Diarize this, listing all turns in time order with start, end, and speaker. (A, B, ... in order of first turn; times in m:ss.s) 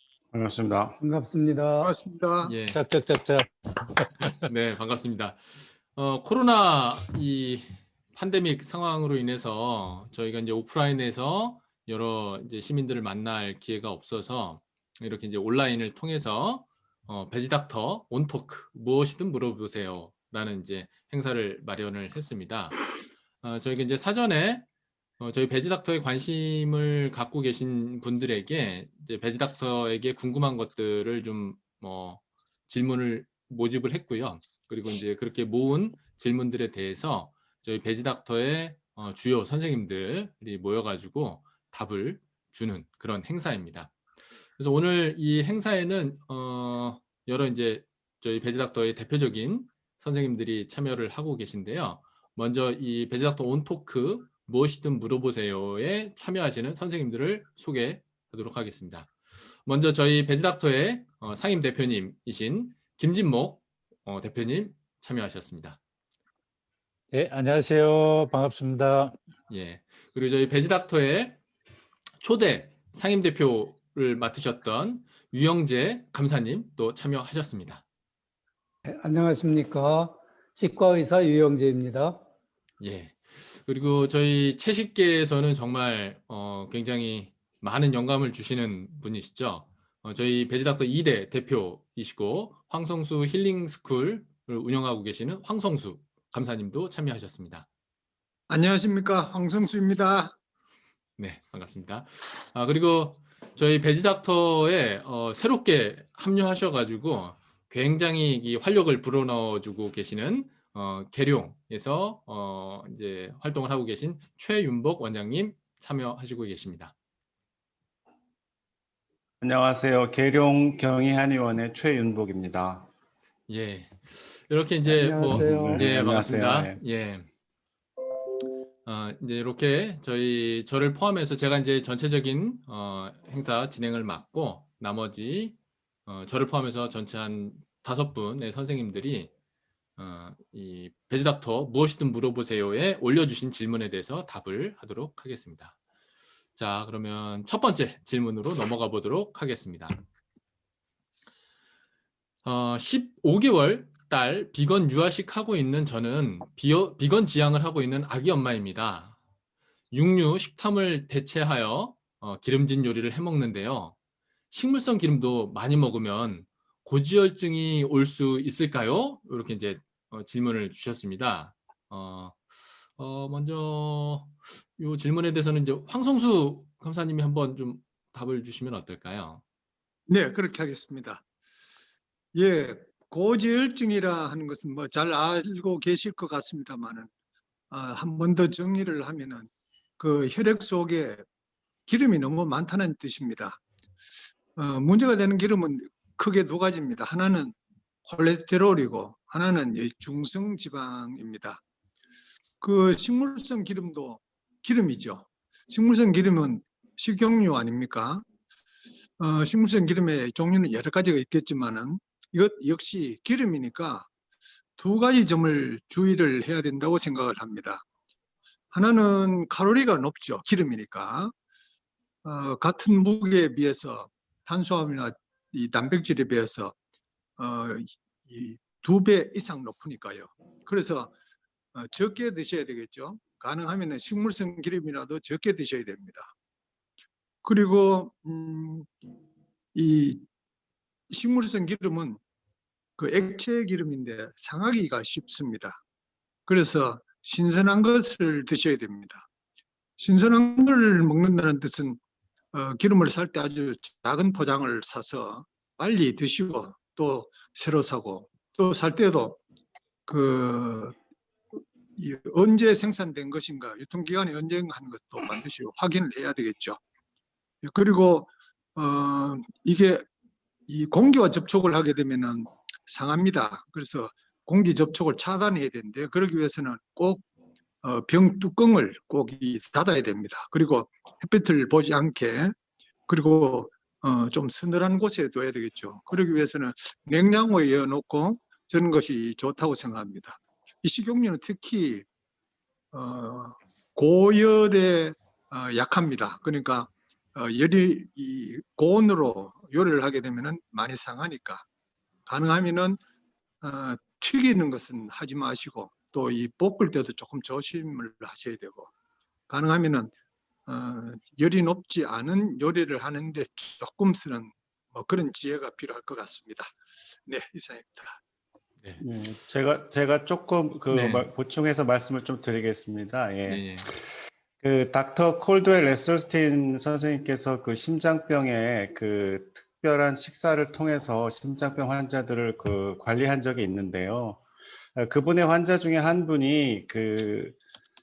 0:00.3-0:01.0 A
0:01.0-0:01.9 B
0:01.8-0:02.5 C
0:02.4-0:02.8 D
0:02.7-0:04.4 E
0:04.4-0:22.8 D
0:23.4-0:24.6 D
0:25.2-0:43.9 D
0:44.6-0:59.1 D
0:59.6-1:05.8 D
1:07.1-1:09.1 E
1:09.5-1:11.4 D
1:12.2-1:17.8 D
1:18.8-1:22.2 B
1:22.8-1:37.7 D
1:38.5-1:40.3 C
1:41.2-1:56.9 D
1:59.4-2:02.9 A
2:03.5-2:07.2 D
2:04.9-2:05.8 B
2:05.2-2:06.8 A
2:08.8-2:19.3 D
2:20.0-2:25.7 D
2:26.6-2:30.0 D
2:32.4-2:39.2 D
2:39.9-2:44.0 D
2:44.5-2:59.4 D
3:00.1-3:01.2 C
3:02.3-3:07.1 C
3:07.7-3:11.2 C
3:11.9-3:13.6 C
3:14.6-3:21.6 C
3:22.6-3:28.2 C
3:29.2-3:34.1 C
3:34.8-3:37.8 C
3:38.7-3:41.3 C
3:42.2-3:46.7 C
3:47.4-3:51.1 C
3:51.7-3:56.3 C
3:57.4-3:58.9 C
3:59.7-4:00.2 C
4:01.1-4:02.2 C
4:03.0-4:05.8 C
4:06.5-4:09.3 C
4:10.0-4:12.0 C
4:12.5-4:19.4 C
4:20.1-4:20.9 C
4:22.0-4:26.8 C
4:27.6-4:30.0 C
4:30.7-4:37.2 C
4:37.8-4:42.5 C
4:43.1-4:52.0 C
4:52.9-5:01.6 C
5:02.3-5:03.0 C
5:03.6-5:08.9 C
5:09.5-5:10.1 C
5:10.6-5:16.7 C
5:17.3-5:18.2 C
5:19.0-5:24.0 A
5:20.9-5:21.3 D
5:23.4-5:23.9 D
5:24.6-5:34.4 A
5:35.0-5:37.6 A